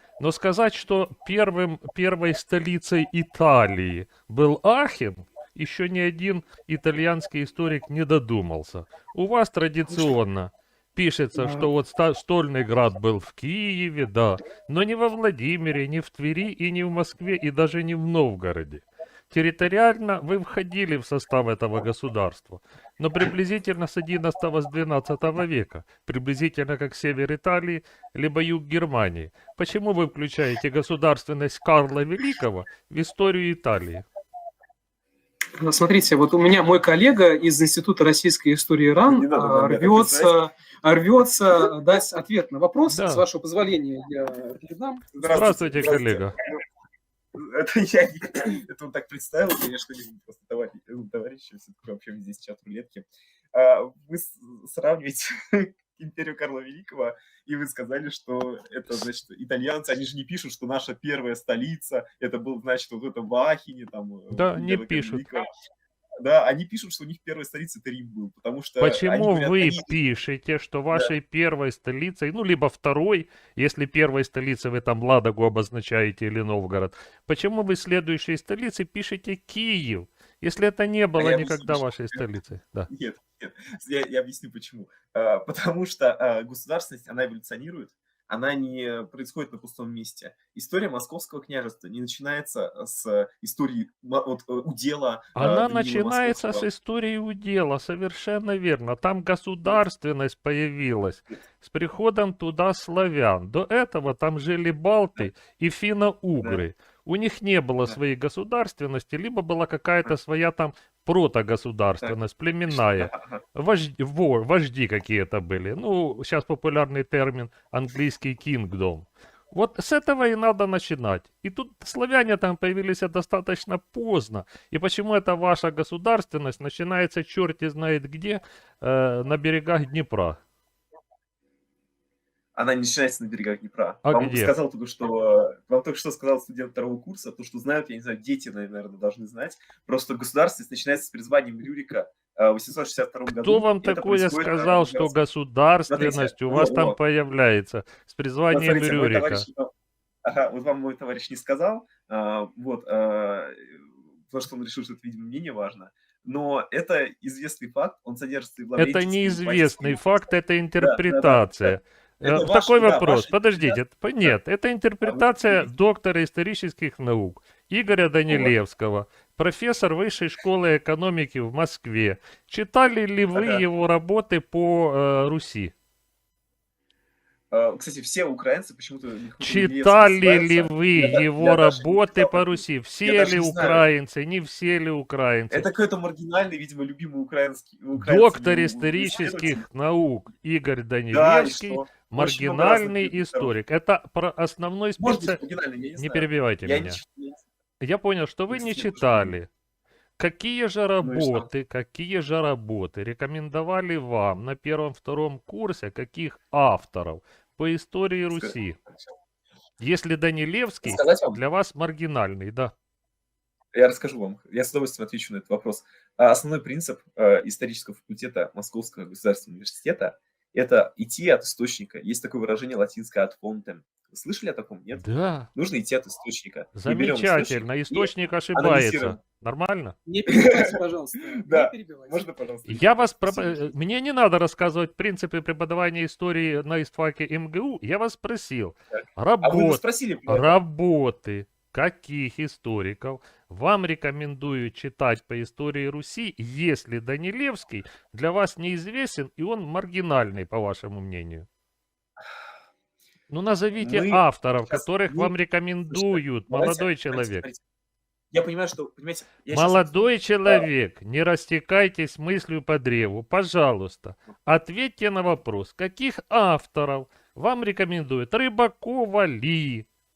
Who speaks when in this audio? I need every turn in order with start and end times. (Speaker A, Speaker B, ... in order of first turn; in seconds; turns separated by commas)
Speaker A: 0.2-34.1, Speaker B: 11.4-11.7, Speaker B: 35.6-46.0, Speaker C: 39.1-40.3, Speaker A: 42.9-43.2, Speaker C: 45.2-46.3, Speaker A: 45.2-46.4, Speaker C: 47.4-65.5, Speaker A: 64.3-65.2, Speaker C: 66.2-70.0, Speaker A: 68.8-82.9, Speaker C: 81.2-82.2, Speaker C: 82.9-96.7, Speaker A: 95.3-130.4, Speaker C: 113.0-113.4, Speaker C: 132.6-145.2, Speaker A: 134.1-134.5, Speaker A: 143.4-149.5, Speaker C: 145.9-147.0, Speaker C: 148.5-149.7, Speaker C: 150.2-160.2, Speaker A: 158.8-175.7, Speaker C: 160.8-164.3, Speaker C: 165.0-165.7, Speaker C: 168.3-168.6, Speaker C: 173.3-173.6, Speaker C: 177.5-183.9, Speaker A: 179.4-185.7, Speaker C: 185.5-189.7, Speaker A: 188.0-195.4, Speaker C: 191.1-193.6, Speaker C: 195.0-197.4, Speaker A: 196.0-197.0, Speaker A: 197.8-199.5, Speaker C: 198.5-199.3, Speaker A: 200.2-208.8, Speaker C: 201.0-201.5, Speaker A: 209.8-212.7, Speaker C: 210.8-211.4, Speaker C: 213.7-229.2, Speaker A: 225.0-225.5, Speaker A: 226.8-230.0, Speaker B: 230.1-232.2, Speaker C: 230.3-233.7, Speaker A: 232.7-251.5, Speaker C: 239.4-240.6, Speaker A: 253.3-257.5, Speaker C: 253.8-255.3, Speaker C: 255.9-257.6, Speaker C: 258.3-260.7, Speaker A: 259.5-269.9